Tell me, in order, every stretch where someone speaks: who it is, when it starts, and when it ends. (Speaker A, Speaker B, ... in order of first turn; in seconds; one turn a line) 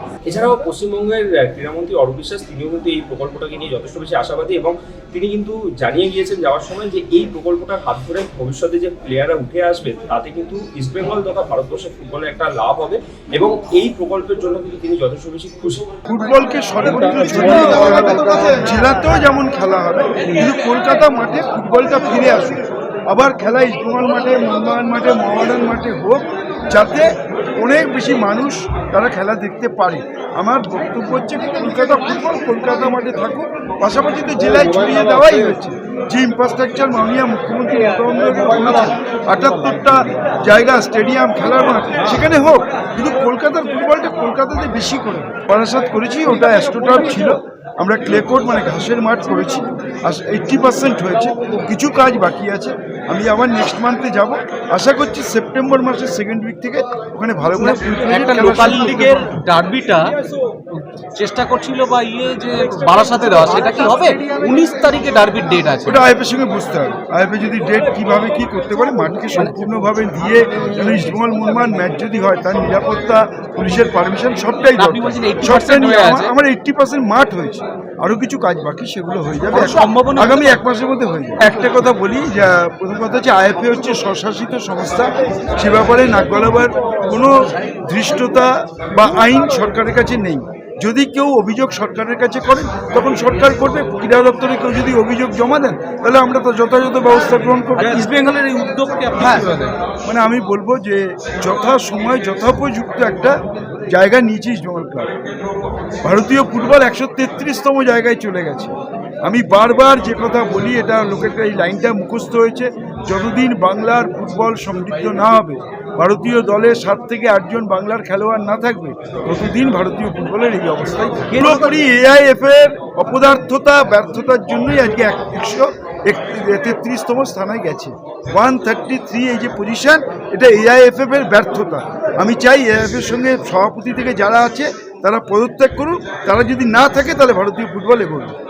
Speaker A: 0.3-15.8
Speaker B: 16.1-59.4
Speaker C: 57.6-60.1
Speaker C: 60.7-66.0
Speaker B: 65.9-98.0
Speaker C: 74.8-76.3
Speaker C: 79.6-80.5
Speaker C: 97.8-99.8
Speaker B: 100.0-105.1
Speaker B: 106.0-138.3
Speaker C: 121.3-121.7